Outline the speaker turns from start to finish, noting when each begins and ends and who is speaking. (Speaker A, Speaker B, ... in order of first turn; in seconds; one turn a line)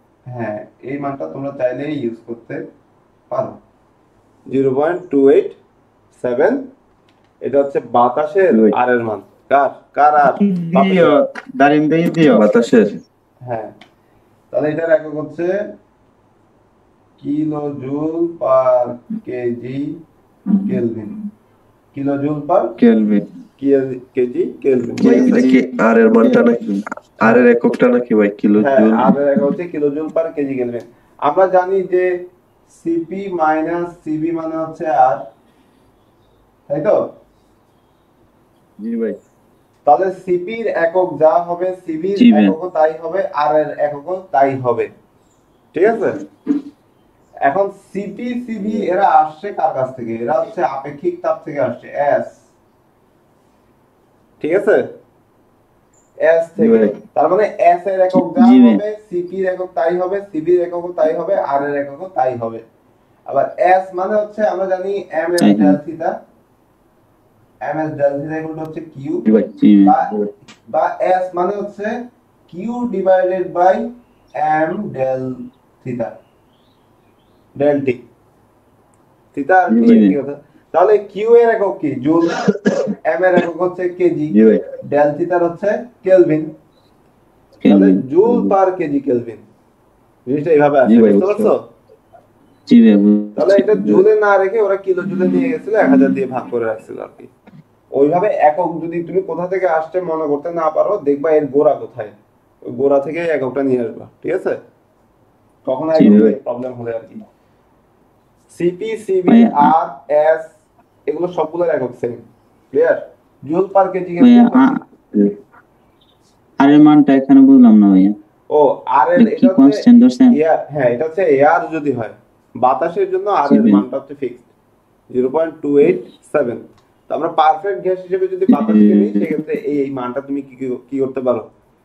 Speaker A: 0.3-2.6
Speaker A: 3.3-3.6
Speaker A: 4.5-5.6
Speaker A: 6.2-6.7
Speaker A: 7.4-11.1
Speaker B: 10.4-12.4
Speaker C: 12.3-13.0
Speaker A: 13.4-13.7
Speaker A: 14.5-15.6
Speaker A: 17.2-20.0
Speaker A: 20.6-21.1
Speaker A: 21.9-22.7
Speaker B: 22.8-23.2
Speaker A: 23.6-25.4
Speaker C: 25.0-29.2
Speaker B: 25.0-26.7
Speaker A: 28.6-32.1
Speaker A: 32.7-35.2
Speaker A: 36.7-37.0
Speaker C: 38.8-39.2
Speaker A: 39.9-44.9
Speaker B: 42.2-42.5
Speaker A: 45.7-46.2
Speaker A: 47.5-52.4
Speaker A: 54.4-54.9
Speaker A: 56.2-62.6
Speaker C: 56.6-56.9
Speaker B: 58.1-58.8
Speaker A: 63.3-66.2
Speaker B: 65.4-65.8
Speaker A: 67.6-69.2
Speaker B: 69.5-69.9
Speaker A: 69.8-70.1
Speaker A: 70.7-71.9
Speaker A: 72.5-76.2
Speaker A: 77.6-78.0
Speaker A: 79.3-82.4
Speaker C: 79.7-80.0
Speaker B: 79.8-80.1
Speaker C: 82.5-82.8
Speaker A: 83.1-86.5
Speaker C: 84.3-84.6
Speaker B: 87.6-88.0
Speaker A: 87.6-89.4
Speaker C: 88.2-88.5
Speaker A: 90.3-91.6
Speaker C: 90.8-91.5
Speaker B: 92.7-93.9
Speaker A: 93.3-97.3
Speaker A: 97.9-102.1
Speaker A: 102.7-104.6
Speaker A: 105.7-107.2
Speaker B: 106.0-106.3
Speaker C: 106.0-106.3
Speaker A: 108.5-110.5
Speaker B: 109.3-109.7
Speaker A: 111.1-114.8
Speaker B: 114.2-115.3
Speaker B: 116.6-118.2
Speaker A: 118.5-124.5
Speaker B: 119.2-120.4
Speaker B: 123.4-123.8
Speaker A: 125.1-131.5
Speaker B: 128.5-129.3